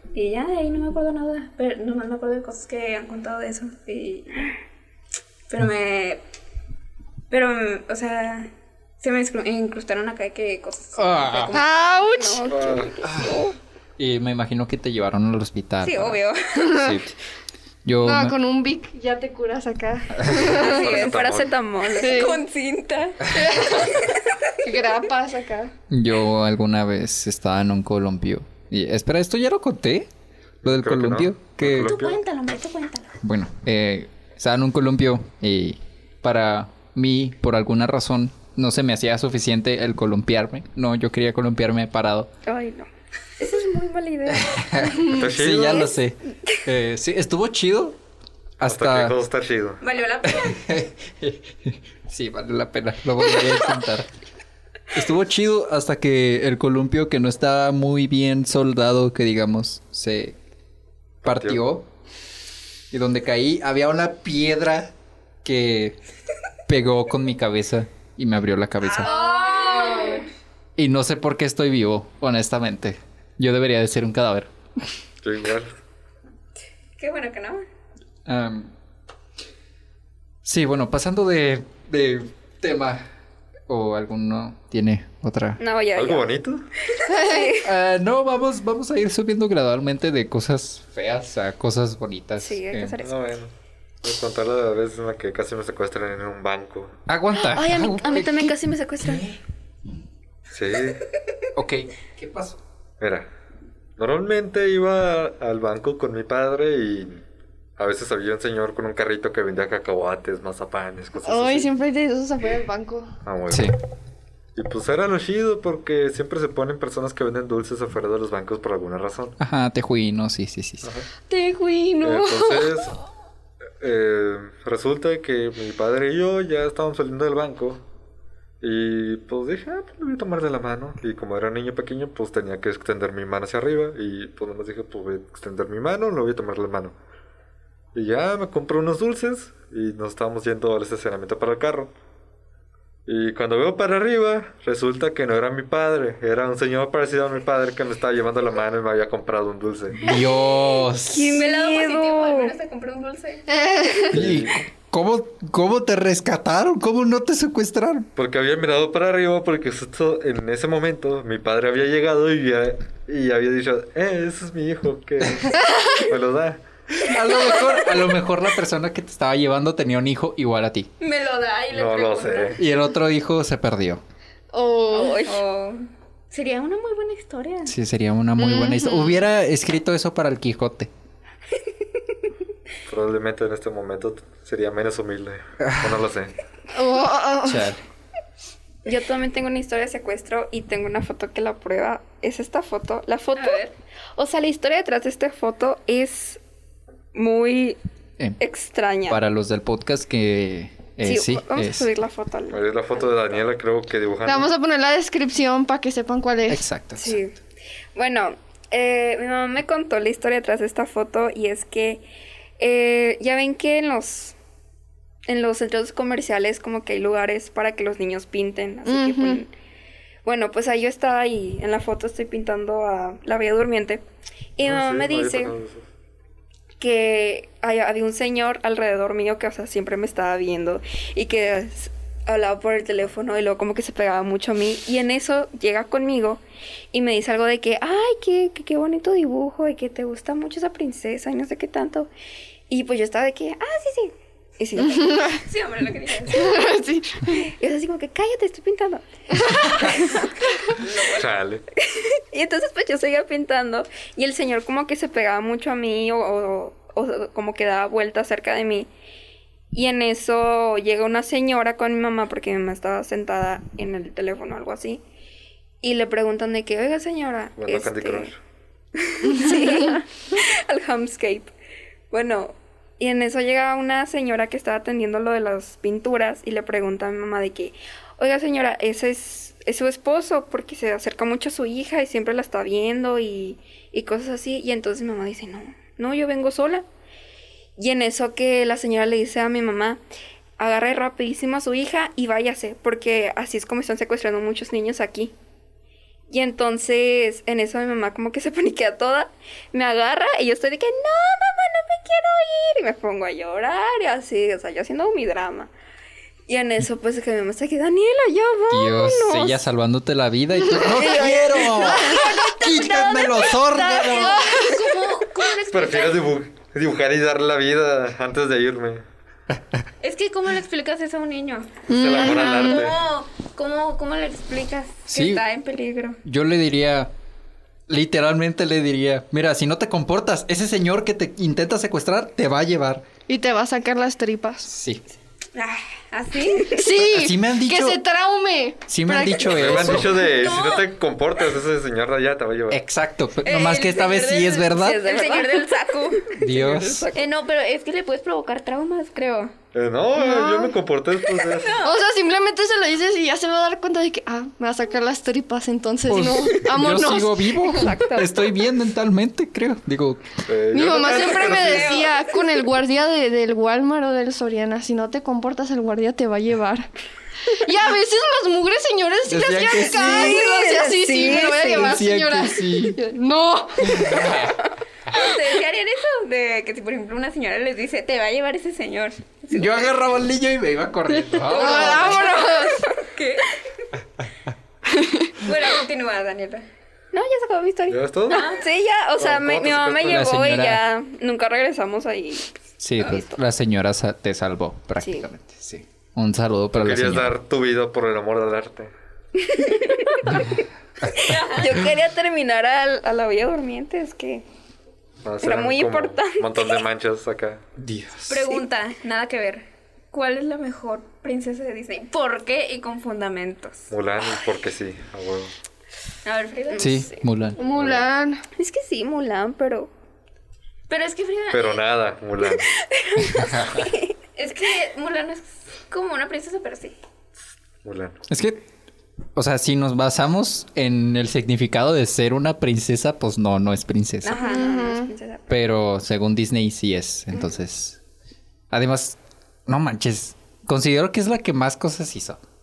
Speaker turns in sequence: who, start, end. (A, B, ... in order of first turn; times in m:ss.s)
0:00.1-0:04.5 A
0:05.5-0:06.2 A
0:07.3-0:11.6 A
0:11.0-0:11.6 B
0:11.5-0:12.5 C
0:12.1-0:13.6 D
0:12.5-0:12.9 E
0:13.0-0:13.3 B
0:14.0-0:16.2 B
0:15.8-0:16.8 A
0:16.6-0:17.0 C
0:16.7-0:17.1 B
0:17.8-0:18.4 B
0:18.0-0:20.8 C
0:20.2-0:20.5 B
0:20.5-0:21.5 E
0:20.5-0:24.0 A
0:20.6-0:22.4 D
0:22.0-0:22.4 C
0:23.3-0:23.9 C
0:24.6-0:25.7 C
0:25.9-0:30.1 B
0:30.6-0:31.9 B
0:30.6-0:32.2 E
0:31.8-0:33.2 A
0:33.2-0:42.3 B
0:42.4-0:44.8 D
0:44.3-0:48.0 B
0:45.0-0:45.9 E
0:48.6-0:49.2 B
0:48.6-0:49.8 E
0:49.8-0:50.6 A
0:50.2-0:54.1 B
0:54.9-1:00.4 B
1:01.2-1:01.9 B
1:01.2-1:01.6 E
1:02.9-1:04.9 B
1:05.4-1:06.0 B
1:06.7-1:09.1 B
1:08.8-1:10.2 A
1:09.0-1:10.2 C
1:09.5-1:09.9 D
1:10.8-1:14.5 B
1:15.2-1:15.7 E
1:17.0-1:17.6 A
1:18.2-1:18.7 B
1:20.4-1:23.1 B
1:23.7-1:25.6 B
1:25.6-1:26.3 D
1:25.9-1:26.7 E
1:26.9-1:27.7 D
1:27.1-1:27.5 C
1:27.6-1:33.0 B
1:32.4-1:33.2 D
1:33.0-1:33.5 E
1:34.0-1:36.9 E
1:37.1-1:39.4 B
1:37.4-1:39.2 D
1:40.5-1:41.0 E
1:41.6-1:42.6 B
1:43.0-1:43.3 E
1:44.0-1:47.2 E
1:47.8-1:51.7 E
1:51.2-1:53.1 C
1:53.2-1:53.7 E
1:53.5-1:53.7 B
1:54.6-1:59.4 E
1:59.4-2:00.9 B
2:01.3-2:02.9 C
2:02.0-2:03.0 E
2:03.8-2:07.8 E
2:08.6-2:17.0 E
2:17.9-2:21.9 E
2:23.0-2:30.0 E
2:30.0-2:31.4 B
2:31.0-2:32.6 D
2:31.3-2:33.4 A
2:33.5-2:34.2 C
2:34.1-2:34.6 E
2:34.1-2:38.1 B
2:38.2-2:46.6 E
2:47.0-2:50.9 B
2:51.0-2:52.6 A
2:51.7-2:52.6 E
2:52.6-2:54.0 B
2:54.5-2:55.3 C
2:54.9-2:57.7 A
2:54.9-2:55.3 D
2:57.6-3:00.9 B
2:58.4-2:59.0 C
3:02.9-3:06.3 E
3:05.6-3:06.0 B
3:06.7-3:07.7 C
3:07.4-3:07.8 B
3:08.8-3:13.6 D
3:13.3-3:13.7 A
3:14.2-3:16.4 D
3:17.1-3:17.8 D
3:18.4-3:19.2 D
3:19.1-3:21.9 B
3:21.0-3:22.6 D
3:22.5-3:24.5 E
3:24.2-3:26.6 C
3:26.5-3:27.2 B
3:27.0-3:27.4 D
3:27.9-3:32.0 D
3:32.6-3:34.4 D
3:35.3-3:39.5 D
3:38.8-3:39.4 C
3:40.2-3:44.0 D
3:44.6-3:45.5 D
3:44.6-3:45.9 E
3:46.8-3:56.4 D
3:56.9-4:02.1 D
4:02.7-4:05.3 D
4:04.8-4:05.4 C
4:05.4-4:06.6 A
4:06.3-4:07.5 C
4:07.4-4:09.0 D
4:09.4-4:09.7 C
4:09.7-4:10.3 D
4:09.8-4:11.3 A
4:11.1-4:11.6 E
4:11.9-4:18.9 D
4:19.7-4:25.0 D
4:25.8-4:28.3 D
4:27.6-4:28.4 E
4:29.0-4:31.5 D
4:29.2-4:30.0 C
4:32.1-4:46.8 D
4:47.8-4:50.0 D
4:50.6-4:55.3 D
4:56.3-5:05.7 D
5:06.5-5:09.6 D
5:08.7-5:14.4 B
5:10.9-5:13.1 D
5:11.7-5:16.3 A
5:11.9-5:12.3 C
5:14.2-5:14.8 C
5:15.7-5:19.0 E
5:20.0-5:26.2 A
5:21.9-5:22.8 C
5:21.9-5:23.0 E
5:25.1-5:25.4 B
5:26.2-5:27.1 B
5:27.9-5:33.0 B
5:33.3-5:34.7 C
5:34.6-5:35.0 B
5:35.5-5:36.9 A
5:36.7-5:40.1 C
5:37.0-5:38.0 B
5:38.9-5:40.2 B
5:39.5-5:42.8 E
5:40.2-5:40.9 A
5:42.7-5:45.0 B
5:43.4-5:46.3 A
5:44.7-5:47.3 D
5:46.4-5:47.1 B
5:47.1-5:49.5 A
5:49.7-5:51.8 E
5:50.1-5:50.7 C
5:51.5-5:52.0 A
5:51.8-5:57.9 C
5:56.1-6:00.4 B
5:57.8-5:58.4 D
6:00.5-6:02.1 E
6:00.7-6:06.9 C
6:01.0-6:02.2 A
6:07.5-6:14.3 C
6:09.2-6:10.4 B
6:09.9-6:12.0 D
6:11.2-6:13.0 B
6:13.8-6:14.6 B
6:15.1-6:19.9 A
6:19.5-6:22.4 B
6:21.4-6:22.9 C
6:21.5-6:23.5 A
6:24.9-6:25.4 C
6:25.4-6:26.7 A
6:27.1-6:32.5 D
6:27.9-6:28.5 E
6:28.3-6:28.6 A
6:29.2-6:30.3 E
6:30.0-6:30.8 B
6:32.8-6:37.3 B
6:35.0-6:35.2 D
6:36.8-6:38.9 E
6:39.5-6:40.4 D
6:41.1-6:41.8 A
6:41.2-6:44.4 D
6:45.2-6:47.6 E
6:45.4-6:46.8 D
6:47.8-6:48.6 B
6:48.3-6:53.9 A
6:53.9-6:55.5 E
6:56.2-6:57.1 A
6:56.7-6:57.1 D
6:56.8-6:57.6 B
6:57.6-6:58.4 C
6:57.7-6:58.0 E
6:58.6-6:59.9 D
7:00.9-7:01.8 A
7:01.5-7:02.7 E
7:03.1-7:07.0 A
7:03.5-7:03.8 B
7:07.8-7:08.2 E
7:08.3-7:08.6 B
7:09.3-7:14.4 B
7:14.2-7:14.9 A
7:14.2-7:15.5 D
7:14.4-7:15.1 C
7:15.5-7:18.0 B
7:18.7-7:22.4 B